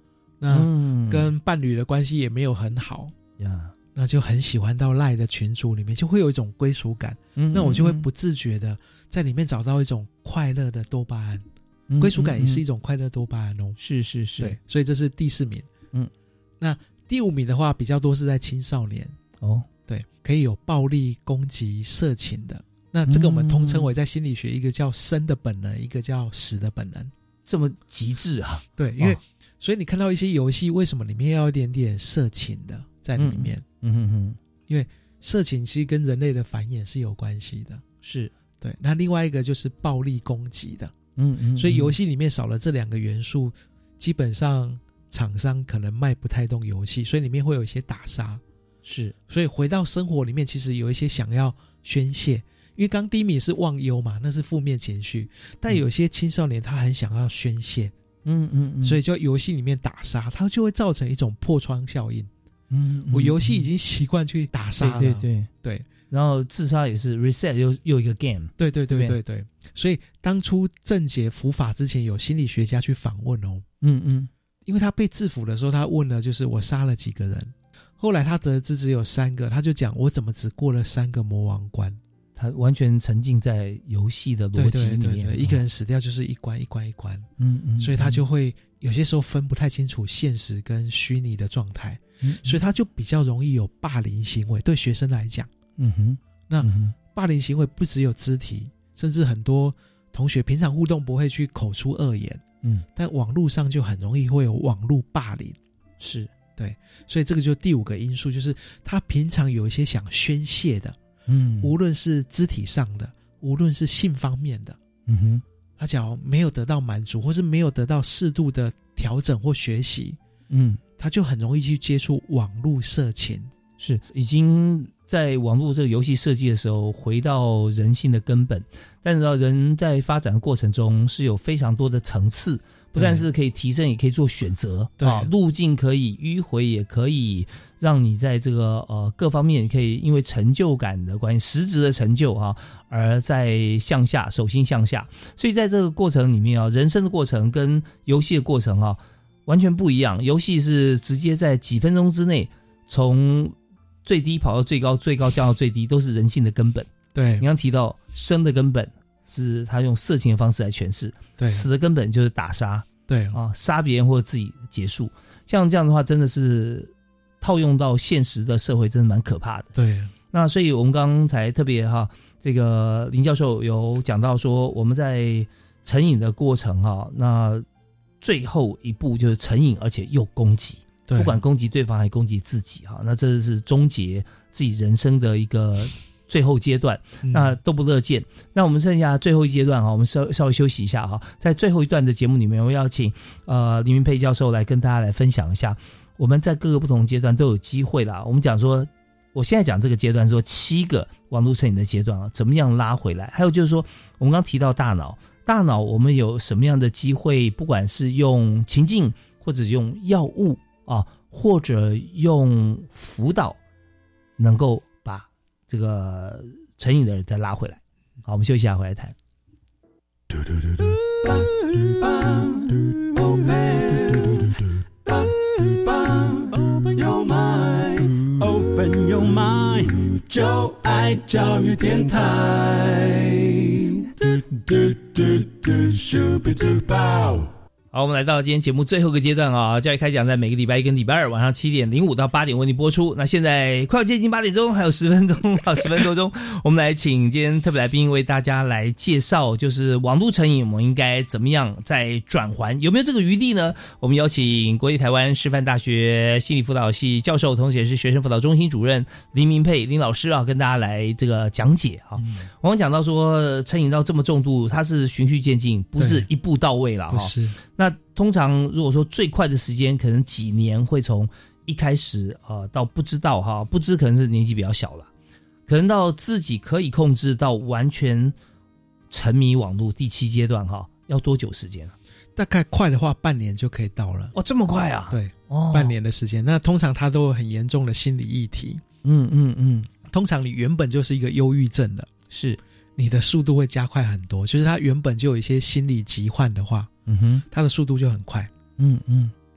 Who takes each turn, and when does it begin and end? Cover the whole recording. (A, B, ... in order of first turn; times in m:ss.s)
0:00.4-0:03.1 A
0:00.5-0:01.3 B
0:03.4-0:03.7 B
0:03.9-0:11.4 A
0:07.4-0:08.1 B
0:11.9-0:12.6 B
0:12.0-0:13.8 A
0:13.8-0:14.6 B
0:14.4-0:15.7 A
0:16.6-0:19.1 A
0:19.4-0:19.7 B
0:19.9-0:27.1 A
0:23.1-0:23.9 B
0:27.4-0:29.2 B
0:28.8-0:33.6 A
0:33.2-0:34.4 B
0:34.7-0:37.8 A
0:38.0-0:38.3 B
0:38.6-0:40.9 A
0:41.2-0:42.0 B
0:41.6-0:48.4 A
0:48.8-0:49.1 B
0:49.3-0:57.9 A
0:58.2-0:59.0 B
0:58.8-1:02.3 A
1:02.7-1:03.6 B
1:03.1-1:05.9 A
1:04.8-1:05.5 B
1:06.1-1:09.2 B
1:08.6-1:13.6 A
1:13.8-1:14.3 B
1:14.6-1:22.0 A
1:22.4-1:25.6 B
1:24.5-1:27.3 A
1:27.4-1:28.2 B
1:27.8-1:35.5 A
1:32.2-1:32.6 B
1:35.8-1:36.9 B
1:36.5-1:42.4 A
1:43.0-1:45.6 A
1:46.0-1:46.3 B
1:46.6-1:51.0 A
1:51.3-1:51.7 B
1:51.6-1:54.8 A
1:55.1-1:55.4 B
1:55.8-2:00.2 A
2:00.5-2:00.8 B
2:01.0-2:03.5 A
2:03.8-2:49.7 B
2:12.9-2:13.2 A
2:15.0-2:15.3 A
2:37.1-2:37.4 A
2:41.4-2:41.6 A
2:43.1-2:43.4 A
2:49.8-2:50.1 A
2:50.3-2:57.6 B
2:58.2-3:33.6 B
3:01.1-3:01.4 A
3:07.2-3:07.6 A
3:34.4-3:39.1 B
3:40.4-3:44.4 C
3:45.0-3:57.5 C
3:57.9-4:35.1 B
4:22.2-4:22.4 A
4:26.0-4:26.3 A
4:27.1-4:27.6 A
4:35.7-4:38.3 B
4:39.1-4:41.9 B
4:42.4-4:44.3 A
4:44.3-4:45.9 B
4:45.1-4:48.8 A
4:49.0-4:49.9 B
4:50.1-4:52.1 A
4:52.3-4:52.6 B
4:53.0-4:56.9 A
4:57.1-4:57.4 B
4:57.5-4:58.5 A
4:58.8-4:59.3 B